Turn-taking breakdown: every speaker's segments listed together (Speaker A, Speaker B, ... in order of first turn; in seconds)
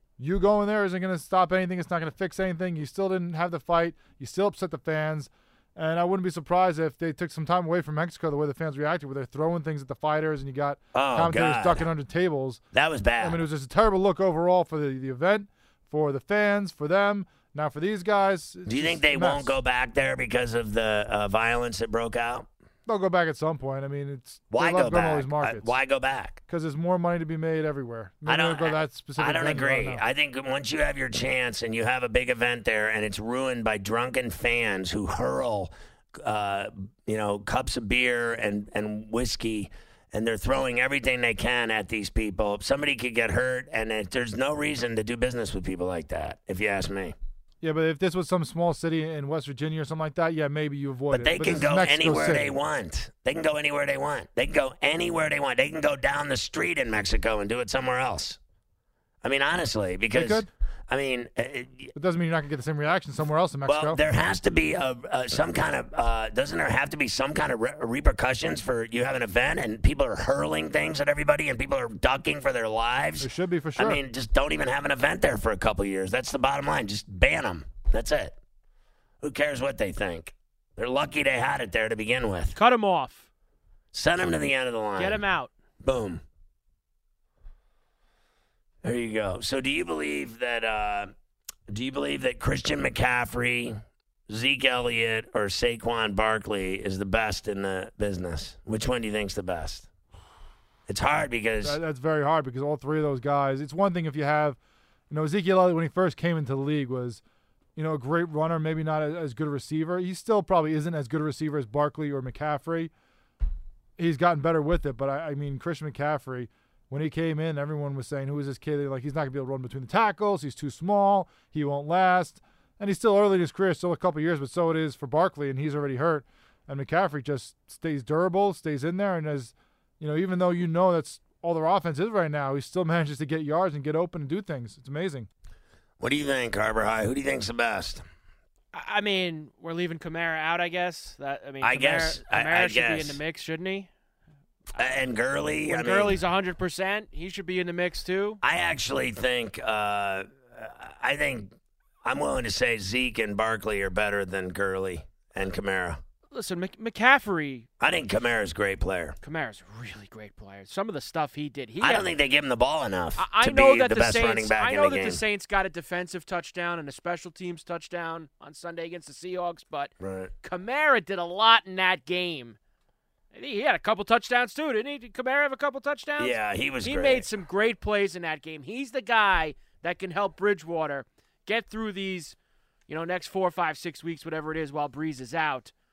Speaker A: 0.2-12.6, 13.2-19.6, 22.9-25.7, 26.5-30.0, 47.6-52.5, 60.1-60.5, 62.0-64.0, 73.2-74.0, 101.6-104.6, 105.1-107.2, 107.8-112.9, 114.0-135.3
Speaker B: 10.9-11.8, 12.7-13.4, 18.7-22.5, 24.5-26.4, 28.3-47.1, 51.1-58.4, 59.2-61.9, 63.7-78.4, 79.2-82.6, 83.9-85.2, 85.8-86.2, 88.8-91.1, 91.7-99.9, 100.9-101.8, 136.0-138.0, 141.6-143.2, 144.8-146.2, 148.4-151.5, 152.0-156.0, 157.8-159.2, 161.8-165.2, 170.0-170.3, 176.2-177.3
Speaker C: 82.5-83.3, 85.0-85.5, 138.7-143.9, 145.7-148.4, 156.3-157.7, 159.2-162.1, 163.2-169.9, 170.4-172.6, 173.3-182.4, 182.9-185.7